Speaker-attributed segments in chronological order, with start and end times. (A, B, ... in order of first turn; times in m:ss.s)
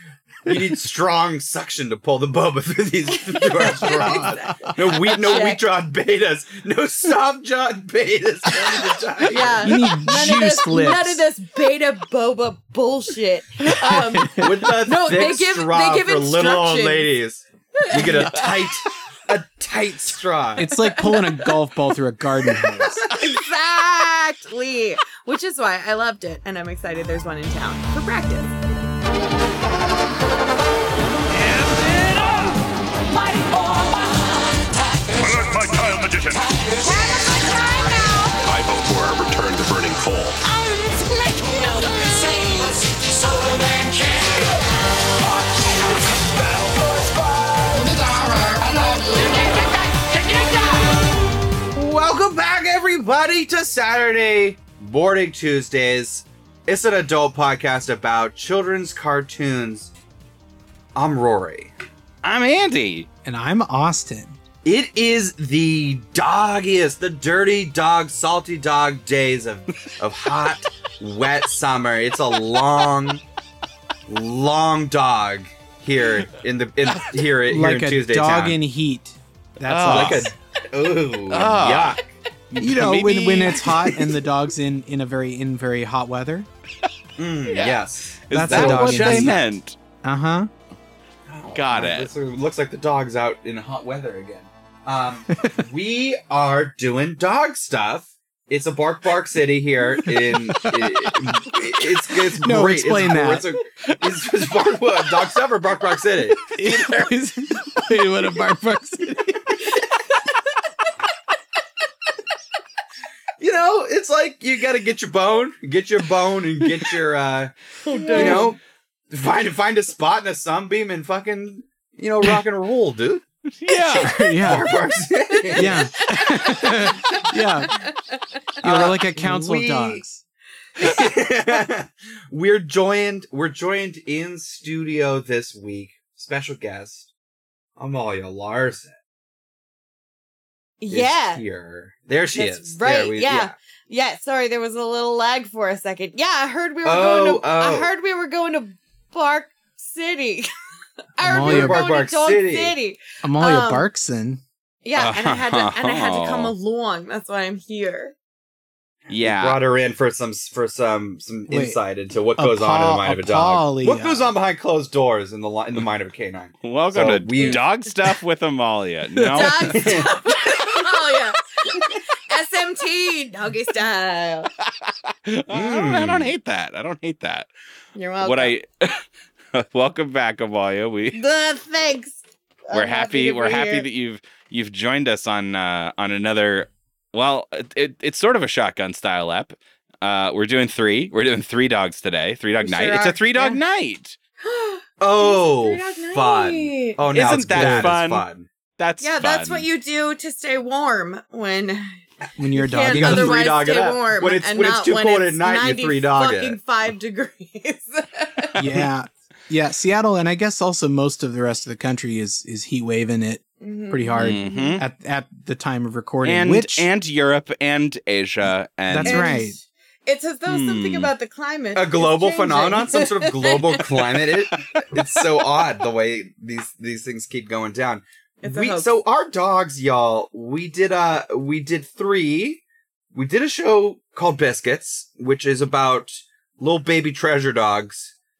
0:00.5-0:09.9 A
0:03.3-0:05.6 B
0:03.8-0:04.8 C
0:09.3-0:17.1 B
0:09.6-0:11.2 C
0:13.6-0:14.7 C
0:14.4-0:20.7 A
0:17.8-0:18.4 B
0:20.6-0:23.0 C
0:20.7-0:21.5 B
0:23.1-0:28.5 B
0:35.1-0:36.4 D
0:36.9-0:38.3 E
0:38.4-0:40.4 D
0:40.5-0:43.9 E
0:48.9-0:49.4 E
0:51.7-0:59.9 A
1:01.0-1:01.7 A
1:02.2-1:03.1 F
1:03.2-1:04.4 C
1:04.6-1:13.2 A
1:14.1-1:18.6 A
1:17.5-1:20.3 C
1:19.7-1:20.3 F
1:19.9-1:22.1 A
1:21.3-1:22.0 F
1:22.5-1:23.6 F
1:22.6-1:26.5 C
1:27.2-1:29.5 A
1:27.5-1:29.8 F
1:28.3-1:29.4 C
1:30.0-1:30.5 C
1:31.3-1:46.5 A
1:31.5-1:32.1 F
1:40.2-1:40.9 C
1:42.3-1:43.5 C
1:46.5-1:49.4 C
1:46.6-1:47.0 F
1:53.4-1:57.5 A
1:57.8-1:58.5 B
1:58.1-1:58.6 A
1:58.2-1:58.5 C
1:59.1-2:05.8 A
2:03.6-2:04.2 F
2:04.1-2:04.7 C
2:05.4-2:07.2 B
2:05.6-2:07.8 C
2:07.7-2:08.2 B
2:08.6-2:10.0 A
2:08.6-2:10.2 C
2:10.8-2:17.1 A
2:17.8-2:19.0 A
2:20.8-2:21.4 B
2:20.9-2:23.6 A
2:22.4-2:30.5 B
2:26.8-2:27.9 A
2:31.2-2:33.9 B
2:31.2-2:31.8 C
2:31.4-2:32.8 A
2:33.2-2:34.4 C
2:34.8-2:38.1 B
2:35.0-2:36.5 F
2:39.1-2:47.6 A
2:39.1-2:39.6 F
2:41.5-2:41.8 C
2:42.4-2:44.3 C
2:46.6-2:49.8 F
2:49.2-2:49.6 C
2:49.4-2:54.5 B
2:49.6-2:50.2 A
2:54.6-2:57.5 F
2:55.5-2:56.3 A
2:58.0-2:58.6 B
2:58.2-2:59.0 F
2:59.6-3:01.2 F
3:01.1-3:03.9 B
3:02.7-3:14.2 F
3:12.6-3:13.6 B
3:14.4-3:17.0 B
3:15.0-3:18.5 A
3:17.1-3:18.2 F
3:17.5-3:17.9 C
3:18.8-3:19.7 F
3:19.0-3:22.0 B
3:22.4-3:23.6 C
3:22.6-3:28.6 B
3:22.9-3:26.6 A
3:28.6-3:36.9 C
3:33.6-3:34.8 B
3:34.2-3:34.8 F
3:36.2-3:39.3 F
3:38.9-3:39.6 C
3:39.0-3:43.8 B
3:40.5-3:41.1 F
3:41.8-3:52.6 A
3:48.4-3:48.9 B
3:53.1-3:58.1 A